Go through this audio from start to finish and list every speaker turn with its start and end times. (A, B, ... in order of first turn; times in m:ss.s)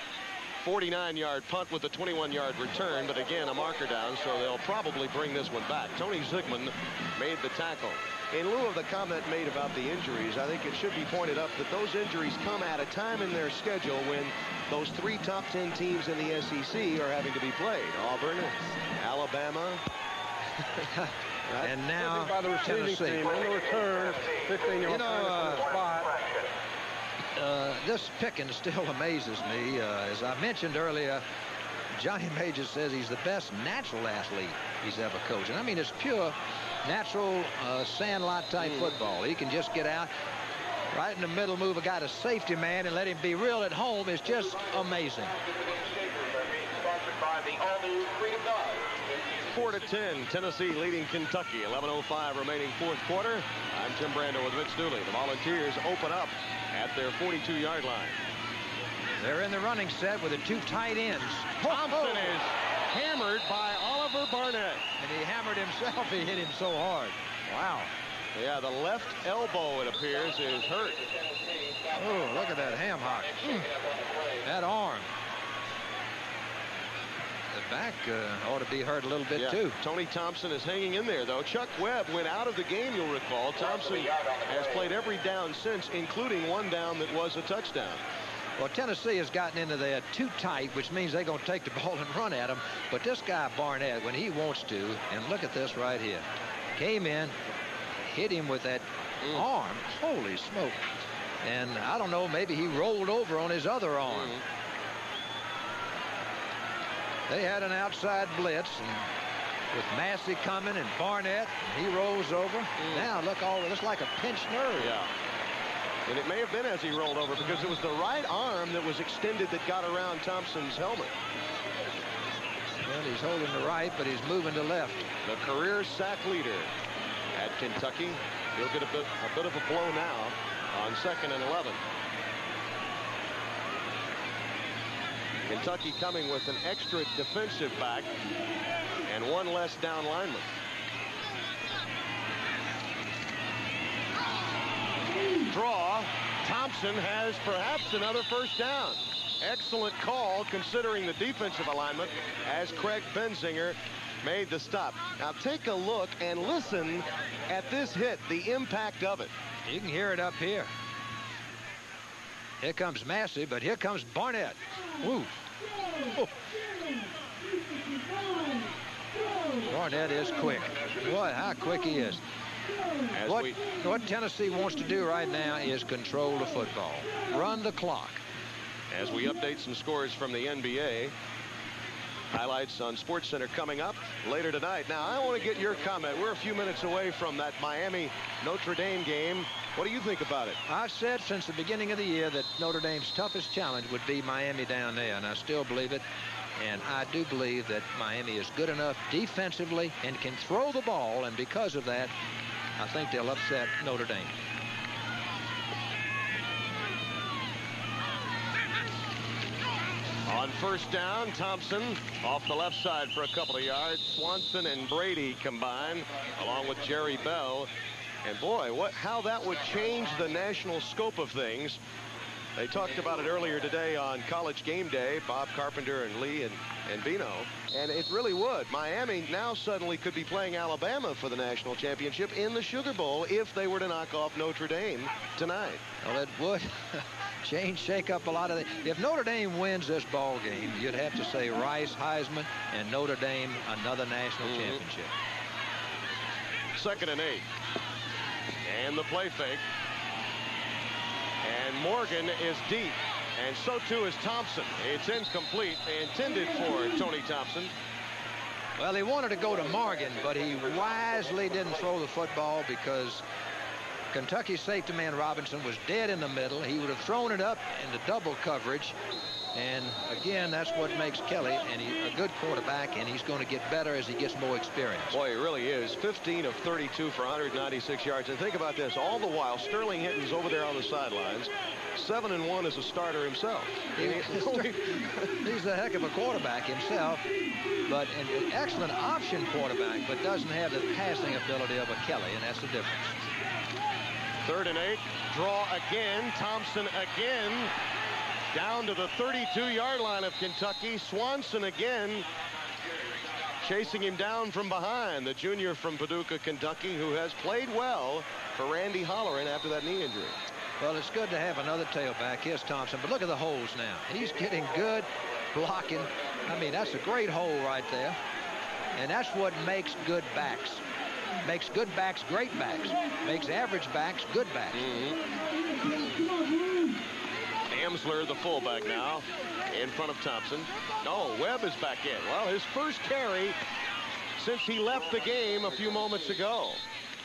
0:00.6-0:19.8 A
0:20.8-0:23.3 B
0:21.5-0:26.2 C
0:24.8-0:25.6 B
0:27.3-0:31.2 B
0:31.9-0:40.1 B
0:38.6-0:38.9 A
0:40.9-0:45.3 B
0:49.5-0:58.2 A
0:59.2-1:02.3 B
1:01.6-1:04.8 A
1:05.0-1:07.9 B
1:08.3-1:11.1 A
1:11.9-1:13.7 B
1:14.4-1:15.1 B
1:17.5-1:19.8 B
1:19.3-1:28.0 A
1:28.6-1:37.3 B
1:38.1-1:40.8 B
1:41.4-1:44.4 B
1:44.1-1:44.4 A
1:47.3-1:49.1 B
1:49.7-1:54.9 B
1:52.8-1:53.0 A
1:54.8-1:55.1 A
1:56.1-2:01.1 A
2:02.8-2:05.0 B
2:05.2-2:06.7 A
2:07.3-2:11.8 A
2:15.4-2:18.1 A
2:19.0-2:20.6 A
2:25.5-2:39.3 A
2:39.6-2:40.7 B
2:42.6-2:45.4 B
2:49.6-2:52.2 B
2:53.1-2:53.6 A
2:53.2-2:58.2 B
2:58.9-3:01.1 A
3:02.3-3:10.6 A
3:10.7-3:16.0 B
3:16.6-3:22.1 B
3:22.8-3:24.4 B
3:30.2-3:37.7 A
3:38.2-3:41.8 A
3:42.6-3:55.8 A
3:56.0-4:05.1 B
4:04.4-4:04.8 A
4:06.7-4:07.5 A
4:08.6-4:09.6 A
4:11.4-4:17.7 A
4:18.8-4:23.2 B
4:24.1-4:29.0 B
4:29.5-4:35.2 B
4:35.1-4:45.2 A
4:44.0-4:47.2 B
4:47.9-4:53.2 B
4:54.4-4:57.7 A
4:58.5-5:02.3 A
5:03.6-5:10.4 A
5:10.8-5:18.2 B
5:18.9-5:20.8 B
5:21.4-5:24.8 B
5:24.7-5:25.2 A
5:27.7-5:33.6 A
5:34.4-5:36.8 A